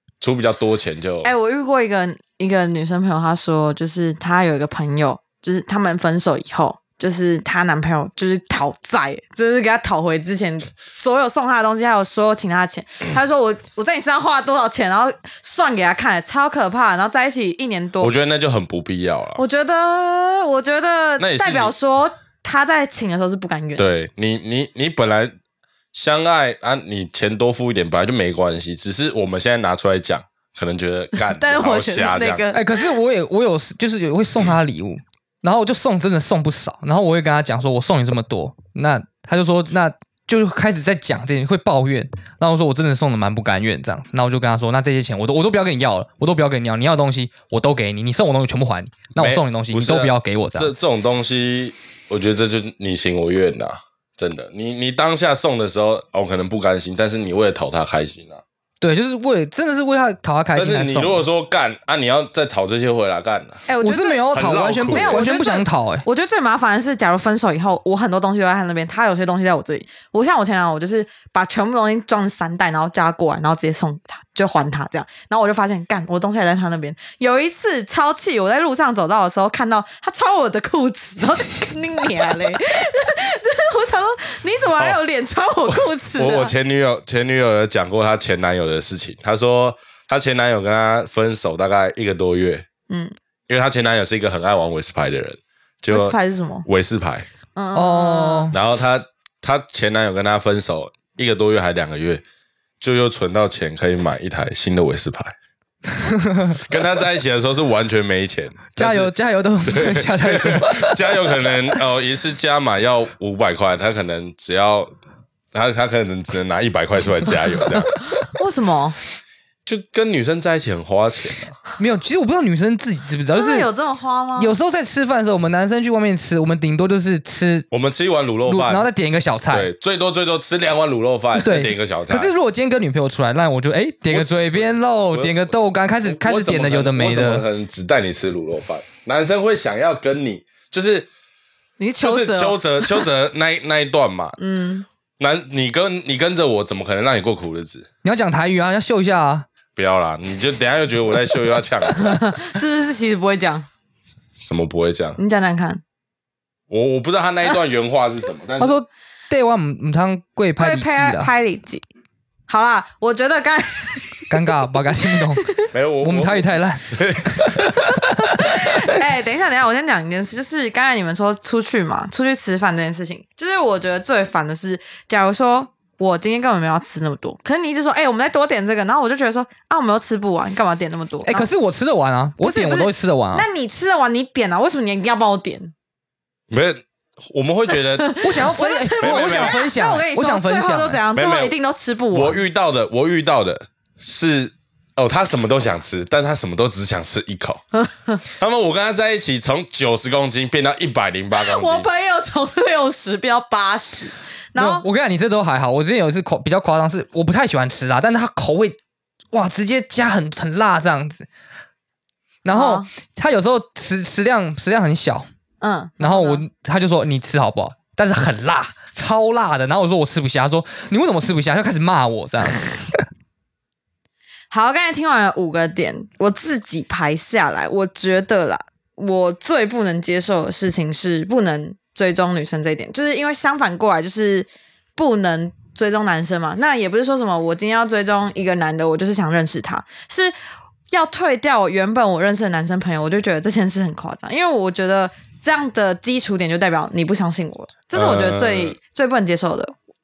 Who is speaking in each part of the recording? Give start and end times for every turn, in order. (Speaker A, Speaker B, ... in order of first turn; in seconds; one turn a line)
Speaker A: 0.2-1.3
Speaker B: 1.2-18.1
Speaker A: 18.0-19.4
Speaker B: 19.4-23.9
Speaker A: 21.2-21.7
Speaker A: 23.8-25.3
Speaker A: 25.9-32.4
Speaker B: 31.2-32.8
Speaker C: 32.5-50.7
Speaker A: 49.2-58.4
Speaker C: 58.8-61.2
Speaker A: 60.5-63.6
Speaker B: 63.7-64.2
Speaker C: 63.8-66.0
Speaker A: 64.3-65.2
Speaker B: 64.9-86.5
Speaker A: 85.7-92.6
Speaker A: 93.5-97.3
Speaker B: 95.9-96.7
Speaker B: 97.5-98.5
Speaker C: 97.7-98.6
Speaker A: 98.5-102.2
Speaker A: 102.8-105.3
Speaker C: 106.0-106.6
Speaker A: 106.5-109.1
Speaker C: 108.8-111.7
Speaker A: 109.7-114.9
Speaker A: 115.5-117.9
Speaker B: 118.2-119.0
Speaker A: 119.7-121.6
Speaker C: 121.8-123.7
Speaker B: 123.3-124.5
Speaker C: 124.4-127.7
Speaker A: 127.7-128.9
Speaker C: 128.4-129.7
Speaker A: 129.5-132.3
Speaker C: 131.3-137.4
Speaker A: 134.1-141.1
Speaker B: 141.8-143.1
Speaker A: 142.0-144.3
Speaker B: 144.4-144.8
Speaker A: 145.2-147.9
Speaker C: 148.0-149.4
Speaker A: 149.8-152.2
Speaker B: 151.9-153.7
Speaker A: 154.4-155.2
Speaker B: 155.2-155.8
Speaker A: 156.7-158.8
Speaker C: 158.6-161.3
Speaker B: 160.6-161.8
Speaker B: 162.5-165.5
Speaker C: 164.3-168.5
Speaker A: 165.7-167.9
Speaker B: 167.8-181.5
Speaker C: 181.2-183.5
Speaker B: 182.4-185.7
Speaker A: 186.5-188.1
Speaker B: 187.7-192.4
Speaker C: 188.2-191.0
Speaker A: 189.0-189.6
Speaker A: 191.1-191.5
Speaker A: 192.1-197.6
Speaker B: 197.8-198.2
Speaker A: 198.3-201.9
Speaker B: 201.3-204.8
Speaker C: 204.6-208.8
Speaker C: 209.3-211.3
Speaker C: 212.4-215.3
Speaker B: 212.5-212.9
Speaker B: 215.6-216.4
Speaker C: 216.0-223.0
Speaker B: 224.5-240.3
Speaker B: 240.9-249.7
Speaker A: 247.9-248.8